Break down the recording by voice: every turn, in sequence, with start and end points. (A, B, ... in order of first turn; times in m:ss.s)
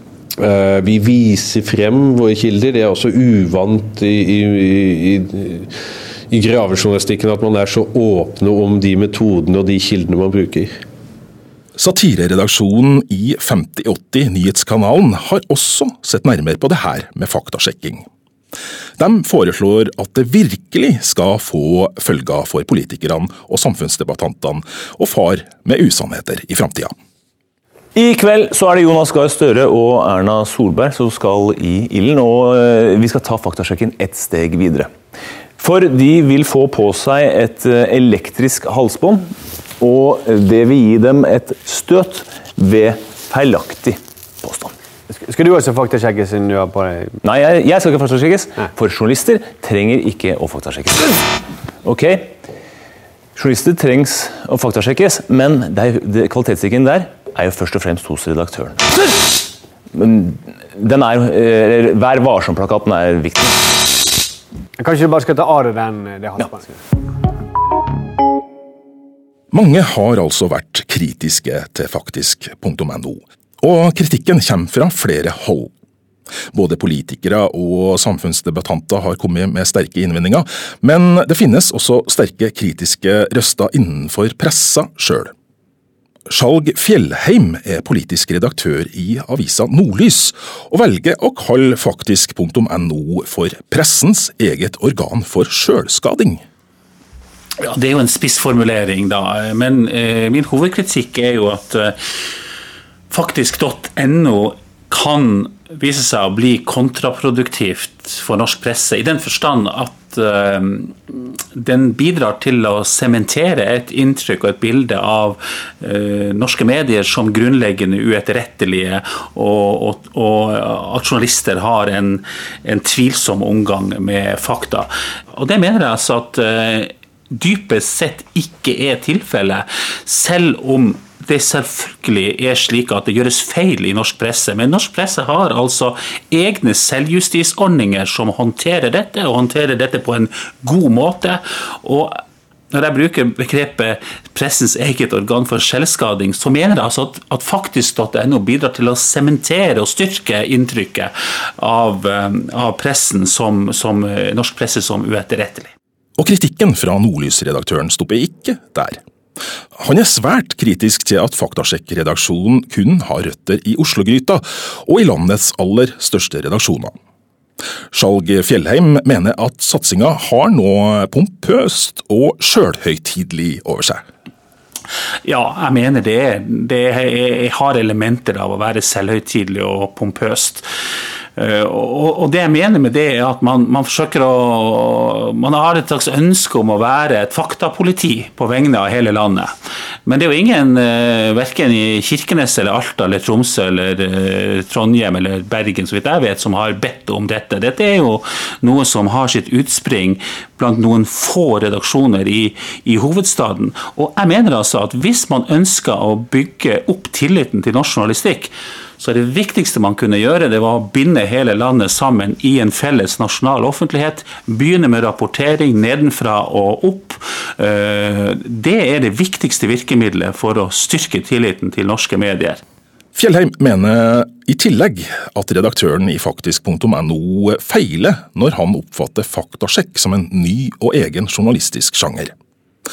0:00.4-0:05.7 A
0:06.3-0:10.7 A
0:11.8-0:18.0 B
0:19.0-0:26.9 B
0:27.9-0:34.9 C
0:35.6-0:44.7 C
0:45.1-0:47.2 D
0:47.2-0:51.2 C
0:51.8-0:52.4 C
0:53.3-0:59.2 C
0:59.9-1:03.8 C
1:04.8-1:06.8 D
1:09.5-1:15.7 B
1:16.5-1:25.3 B
1:26.3-1:36.4 B
1:37.6-1:42.2 E
1:43.1-2:22.2 E
2:22.7-2:35.7 E
2:36.2-2:39.0 B
2:39.7-2:46.9 B
2:47.9-2:54.0 B
2:55.2-3:00.6 E
3:01.4-3:09.5 E
3:10.0-3:42.6 E
3:43.1-3:52.3 B